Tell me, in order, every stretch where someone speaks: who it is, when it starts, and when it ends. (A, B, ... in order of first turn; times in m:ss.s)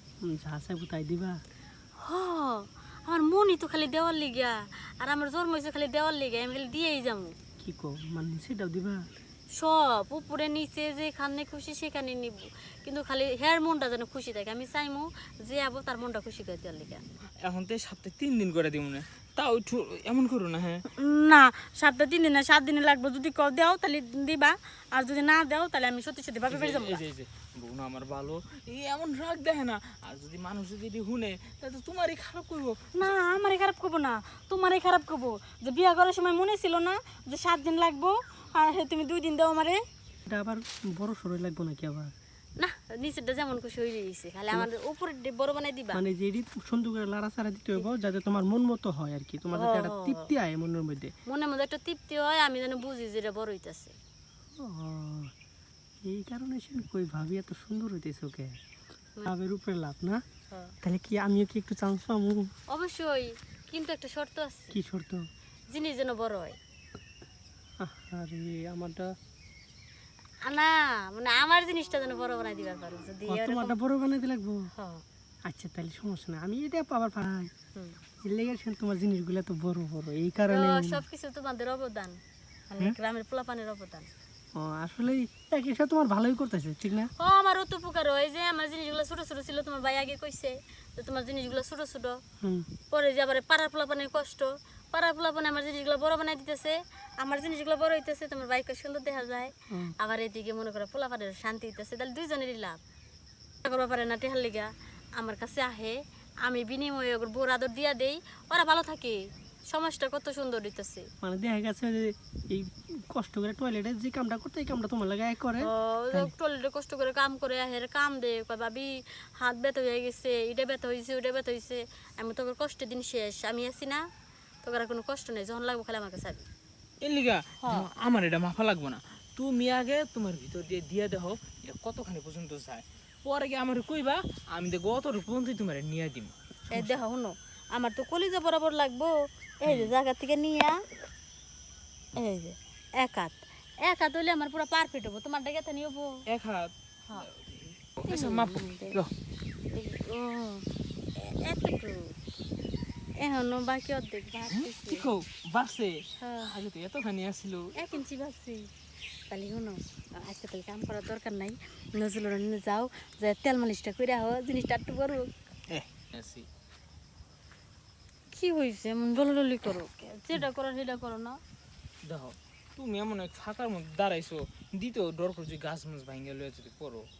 0:00.2-0:01.3 A
0:02.0-0:07.3 B
0:07.6-0:09.0 A
0:09.6-0:17.0 B
0:17.4-0:20.8 C
0:20.9-0:27.0 B
0:26.5-0:33.1 C
0:33.0-0:39.8 B
0:40.3-0:42.1 A
0:42.6-0:46.0 B
0:45.9-0:51.1 A
0:49.6-0:50.3 B
0:51.3-0:53.9 B
0:54.6-0:55.3 A
0:56.0-0:58.6 A
0:59.2-1:00.2 A
1:00.5-1:00.7 B
1:00.8-1:02.5 A
1:02.7-1:04.8 B
1:04.7-1:05.2 A
1:05.7-1:06.6 B
1:07.8-1:09.1 A
1:10.4-1:13.7 B
1:13.3-1:14.7 A
1:14.7-1:15.0 B
1:15.4-1:17.5 A
1:18.2-1:21.0 A
1:20.5-1:22.2 B
1:22.7-1:24.1 B
1:24.6-1:27.1 A
1:27.2-1:32.2 B
1:32.9-1:42.8 B
1:43.6-1:51.1 B
1:51.2-1:56.3 A
1:55.6-2:04.0 B
2:04.6-2:06.5 B
2:07.0-2:17.0 C
2:07.6-2:07.9 B
2:16.7-2:20.8 B
2:19.7-2:19.9 C
2:22.2-2:26.2 B
2:26.3-2:29.1 C
2:28.1-2:29.0 B
2:29.7-2:32.2 B
2:33.2-2:35.1 B
2:34.5-2:37.8 C
2:36.2-2:36.5 B
2:37.7-2:38.7 B
2:39.3-2:45.3 B
2:45.7-2:46.5 C
2:48.3-2:51.4 B
2:52.0-2:57.1 C